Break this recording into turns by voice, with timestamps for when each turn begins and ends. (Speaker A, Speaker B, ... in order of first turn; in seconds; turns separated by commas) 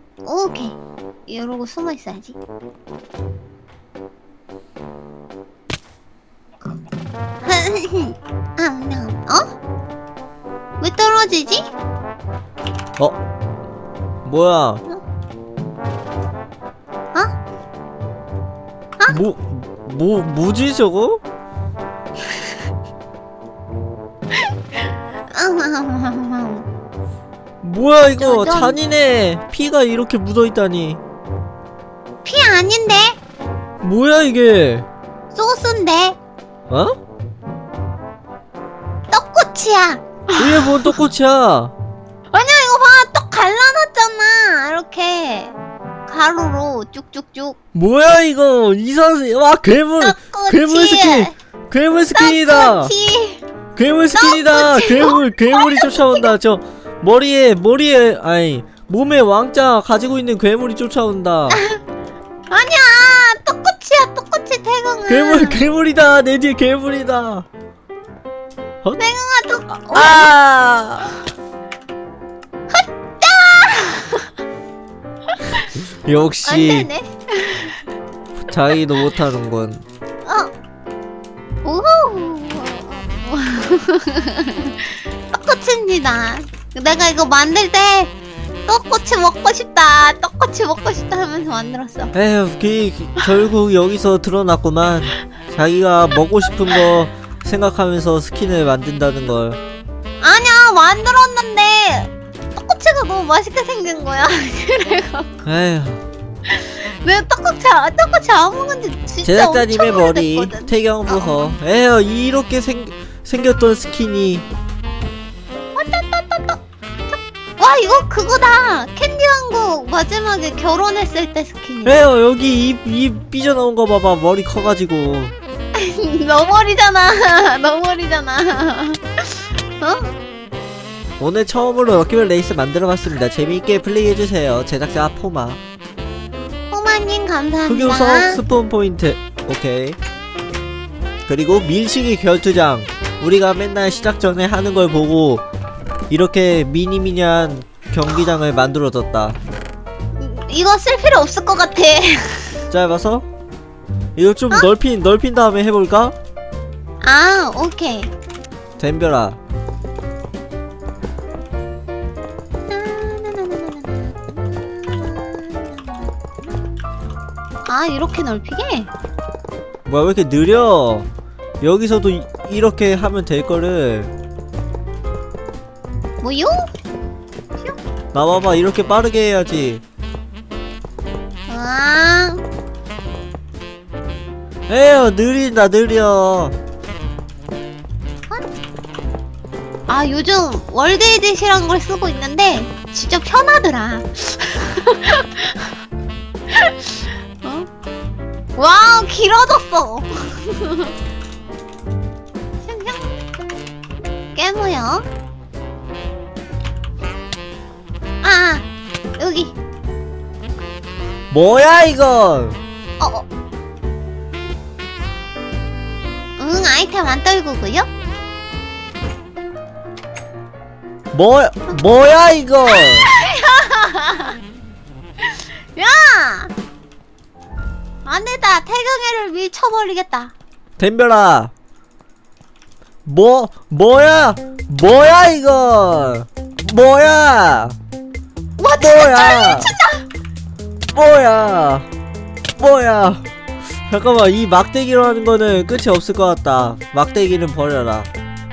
Speaker A: 0.2-2.4, Speaker A: 7.4-9.5, Speaker A: 10.8-11.6, Speaker B: 14.2-14.8, Speaker B: 19.1-21.2, Speaker A: 25.3-26.7, Speaker B: 27.6-31.0, Speaker A: 28.2-28.8, Speaker A: 32.2-33.1, Speaker B: 33.8-34.8, Speaker A: 35.3-36.2, Speaker B: 36.7-36.9, Speaker A: 39.1-41.0, Speaker B: 40.4-41.7, Speaker A: 42.3-45.5, Speaker A: 46.1-47.6, Speaker B: 47.7-52.9, Speaker A: 50.0-51.3, Speaker A: 52.1-53.4, Speaker B: 53.8-61.6, Speaker A: 54.1-56.3, Speaker A: 61.5-61.8, Speaker A: 62.5-65.6, Speaker B: 65.1-67.5, Speaker A: 69.0-70.3, Speaker B: 69.9-71.2, Speaker A: 72.7-74.3, Speaker B: 76.0-76.9, Speaker A: 76.5-77.8, Speaker B: 78.4-79.8, Speaker A: 80.2-80.5, Speaker A: 81.6-88.1, Speaker A: 88.7-92.1, Speaker B: 92.1-99.6, Speaker A: 100.2-105.3, Speaker B: 105.4-106.0, Speaker A: 106.5-111.4, Speaker B: 109.2-114.5, Speaker A: 115.7-122.0, Speaker B: 121.8-125.3, Speaker A: 125.7-130.1, Speaker B: 131.2-135.6, Speaker A: 136.7-138.4, Speaker B: 137.7-140.0, Speaker B: 141.3-145.4, Speaker B: 146.1-149.4, Speaker A: 150.2-152.6, Speaker B: 152.7-153.2, Speaker B: 154.2-156.1, Speaker A: 157.0-158.1, Speaker B: 158.8-159.4, Speaker A: 162.7-166.1, Speaker A: 167.6-168.9, Speaker B: 169.9-171.1, Speaker B: 171.6-174.1, Speaker A: 176.2-176.7, Speaker B: 178.1-179.8, Speaker A: 181.5-182.4, Speaker B: 184.7-186.5, Speaker A: 189.9-195.7, Speaker A: 196.5-197.7, Speaker A: 198.6-200.9, Speaker A: 202.6-203.1, Speaker A: 204.3-205.0, Speaker A: 208.2-208.7, Speaker A: 209.2-209.5, Speaker B: 211.3-212.6, Speaker A: 213.0-213.2, Speaker A: 216.4-217.9, Speaker B: 221.1-223.1, Speaker A: 222.7-224.4, Speaker A: 225.2-226.5, Speaker A: 228.0-230.3, Speaker B: 230.8-231.5, Speaker B: 233.0-237.8, Speaker A: 238.6-240.0, Speaker B: 238.8-239.7, Speaker B: 240.9-241.9, Speaker B: 242.6-243.2, Speaker B: 243.9-248.1